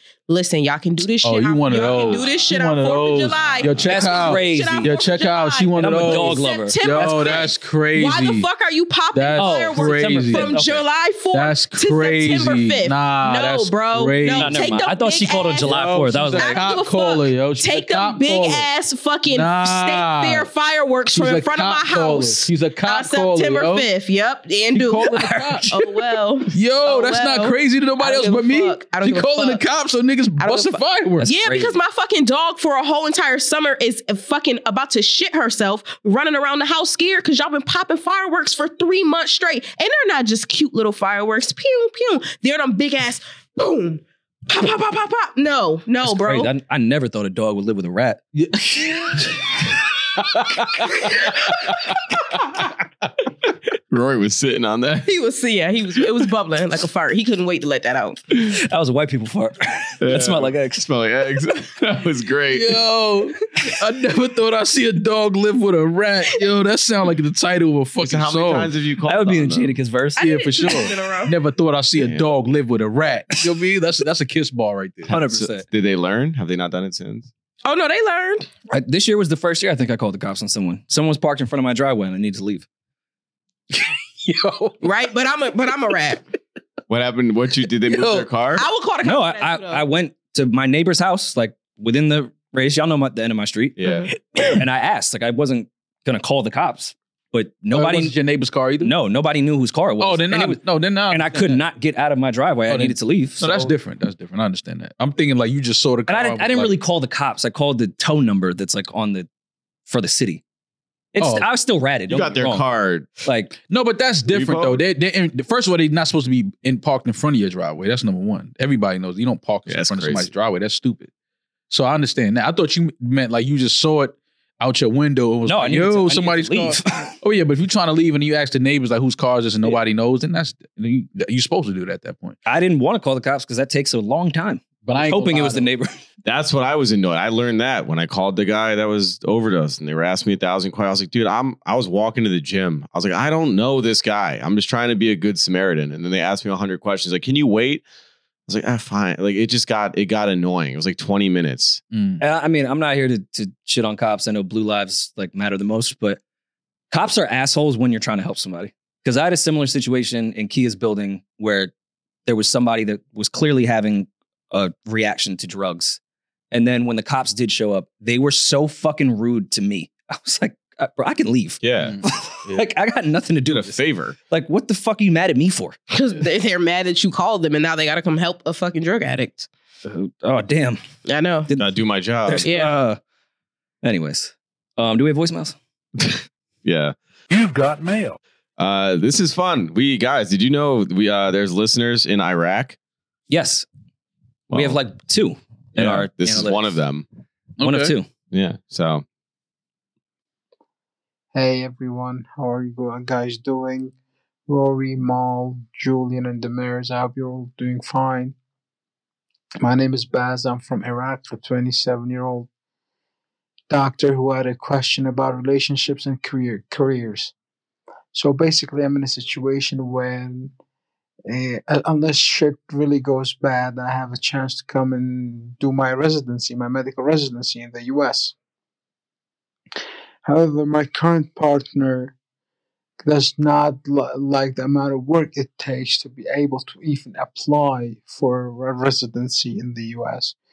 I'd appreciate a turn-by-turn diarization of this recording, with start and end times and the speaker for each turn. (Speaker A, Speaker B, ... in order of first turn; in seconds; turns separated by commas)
Speaker A: 0.3-15.7, Speaker B: 1.2-8.5, Speaker C: 3.8-4.9, Speaker C: 5.8-7.4, Speaker B: 9.1-10.6, Speaker C: 9.4-10.8, Speaker B: 11.3-14.7, Speaker C: 14.3-16.6, Speaker B: 15.6-18.7, Speaker A: 16.3-29.6, Speaker B: 19.3-20.5, Speaker B: 21.1-23.9, Speaker B: 24.7-25.8, Speaker B: 26.5-31.3, Speaker A: 30.4-46.5, Speaker C: 31.2-31.8, Speaker C: 46.0-48.2, Speaker B: 48.3-49.6, Speaker B: 50.1-52.4, Speaker D: 53.9-55.1, Speaker A: 55.0-58.4, Speaker C: 58.5-60.9, Speaker D: 60.0-62.8, Speaker B: 62.5-68.7, Speaker D: 68.0-69.8, Speaker C: 69.0-70.2, Speaker A: 70.2-71.3, Speaker B: 70.2-75.2, Speaker D: 72.0-72.3, Speaker C: 75.1-75.7, Speaker D: 75.1-77.3, Speaker A: 77.6-78.5, Speaker C: 78.7-82.7, Speaker B: 83.7-84.8, Speaker A: 84.8-86.2, Speaker D: 86.9-88.7, Speaker B: 87.9-88.3, Speaker A: 88.5-89.8, Speaker C: 89.0-93.8, Speaker D: 93.8-94.1, Speaker C: 94.3-98.2, Speaker B: 97.7-98.9, Speaker C: 98.8-103.7, Speaker B: 100.0-101.6, Speaker B: 102.7-106.7, Speaker C: 106.1-109.3, Speaker C: 109.9-110.4, Speaker C: 111.1-112.6, Speaker B: 111.2-111.5, Speaker D: 112.1-113.1, Speaker C: 113.2-113.5, Speaker B: 113.7-121.1, Speaker D: 114.3-114.8, Speaker D: 119.7-120.3, Speaker B: 121.7-132.4, Speaker C: 125.5-127.2, Speaker C: 132.4-135.9, Speaker B: 134.8-135.7, Speaker D: 136.2-147.8, Speaker D: 148.5-151.8, Speaker B: 151.9-152.2, Speaker C: 152.2-156.2, Speaker C: 156.9-161.7, Speaker C: 162.2-166.0, Speaker C: 166.5-173.8, Speaker D: 171.6-172.0, Speaker B: 171.8-172.6, Speaker D: 173.5-174.2, Speaker C: 174.3-175.8, Speaker A: 175.9-179.5, Speaker C: 179.8-180.8, Speaker A: 181.1-181.5, Speaker C: 181.5-183.0, Speaker D: 181.6-182.5, Speaker A: 182.4-182.7, Speaker C: 183.8-185.6, Speaker D: 186.0-186.9, Speaker B: 187.3-188.2, Speaker D: 188.6-192.8, Speaker C: 193.3-193.7, Speaker D: 194.5-194.8, Speaker C: 194.5-196.8, Speaker B: 195.8-196.1, Speaker D: 196.2-197.1, Speaker B: 197.6-197.9, Speaker C: 197.6-198.1, Speaker D: 198.3-199.0, Speaker E: 201.3-203.9, Speaker E: 204.5-208.3, Speaker E: 209.6-212.5, Speaker E: 213.7-217.3, Speaker E: 218.1-220.5, Speaker E: 221.3-228.3, Speaker E: 230.2-232.1, Speaker E: 233.0-240.3